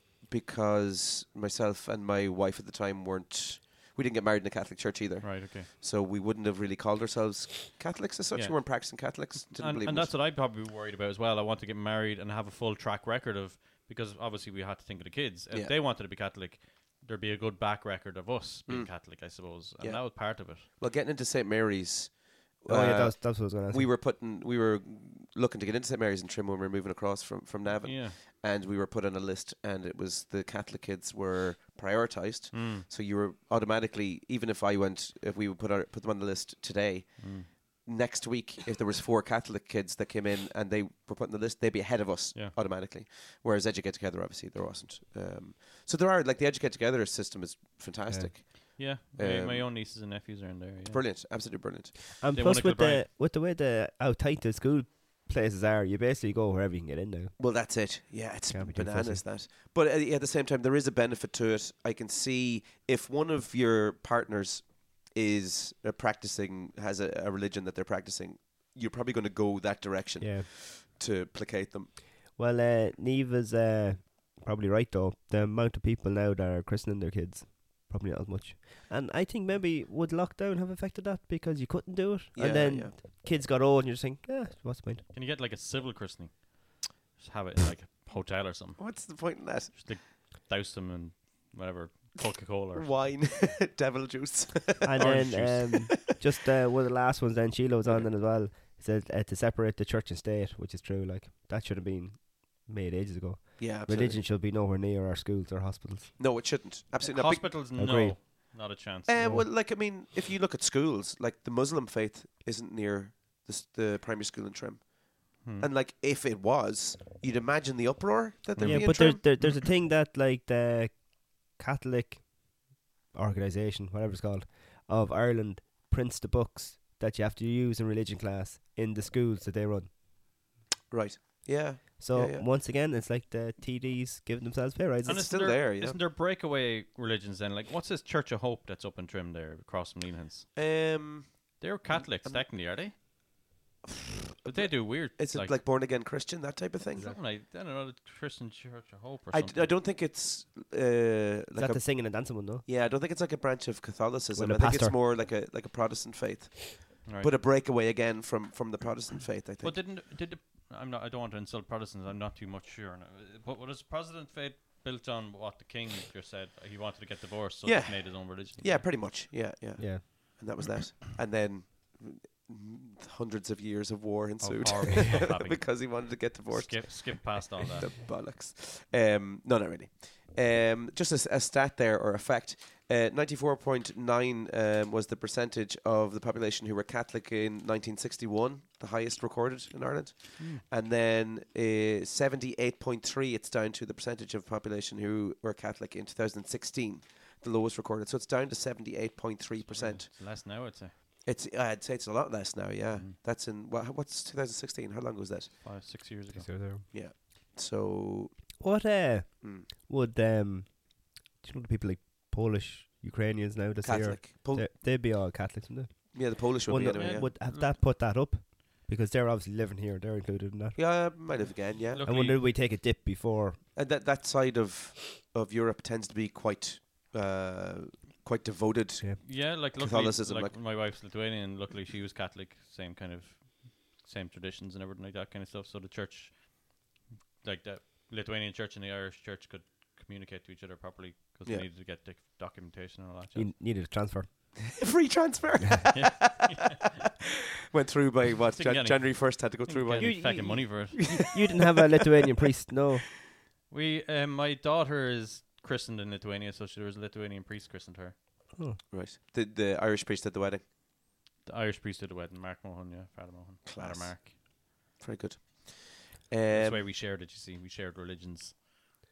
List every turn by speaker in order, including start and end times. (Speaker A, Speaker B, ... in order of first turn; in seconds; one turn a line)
Speaker A: 0.2-10.1
Speaker B: 5.2-5.7
Speaker B: 8.3-20.6
Speaker A: 18.7-49.7
Speaker C: 22.7-23.9
Speaker B: 27.8-28.2
Speaker B: 32.5-32.9
Speaker B: 37.2-37.5
Speaker B: 48.8-51.0
Speaker A: 50.9-52.2
Speaker C: 52.2-57.3
Speaker B: 52.4-53.0
Speaker A: 57.4-71.9
Speaker C: 58.5-59.2
Speaker C: 70.2-70.5
Speaker C: 72.3-85.0
Speaker A: 82.3-83.0
Speaker B: 85.1-89.0
Speaker A: 88.8-89.9
Speaker B: 89.7-92.9
Speaker A: 92.7-96.2
Speaker C: 94.8-106.1
Speaker A: 103.6-104.2
Speaker A: 106.2-107.5
Speaker B: 107.0-109.1
Speaker C: 107.8-108.2
Speaker A: 109.1-119.5
Speaker C: 109.2-109.5
Speaker B: 118.5-119.4
Speaker C: 118.6-129.9
Speaker A: 130.9-132.4
Speaker C: 132.0-135.3
Speaker B: 135.0-140.5
Speaker A: 135.1-136.0
Speaker A: 140.6-143.0
Speaker B: 141.6-142.9
Speaker A: 143.9-147.1
Speaker B: 144.5-145.6
Speaker B: 146.9-149.7
Speaker A: 149.3-159.8
Speaker C: 151.6-152.6
Speaker C: 154.3-155.0
Speaker B: 157.1-157.3
Speaker B: 159.6-168.8
Speaker A: 167.6-200.1
Speaker C: 169.8-170.0
Speaker B: 174.4-177.9
Speaker B: 190.4-190.6
Speaker B: 199.6-200.9
Speaker A: 201.2-205.5
Speaker B: 205.6-206.5
Speaker C: 206.3-206.8
Speaker A: 206.9-208.4
Speaker C: 208.6-221.4
Speaker A: 209.4-209.7
Speaker A: 213.8-214.7
Speaker A: 216.1-217.3
Speaker B: 216.9-217.8
Speaker A: 220.8-222.0
Speaker B: 221.9-222.4
Speaker C: 222.0-223.6
Speaker A: 223.7-230.6
Speaker B: 229.2-236.8
Speaker B: 237.4-243.5
Speaker C: 243.3-244.3
Speaker A: 244.8-246.5
Speaker B: 245.9-246.8
Speaker A: 247.7-250.4
Speaker B: 248.6-251.1
Speaker C: 249.9-253.1
Speaker B: 253.7-258.1
Speaker A: 258.9-260.6
Speaker B: 261.4-264.3
Speaker A: 263.6-264.4
Speaker A: 265.0-266.8
Speaker B: 266.5-268.7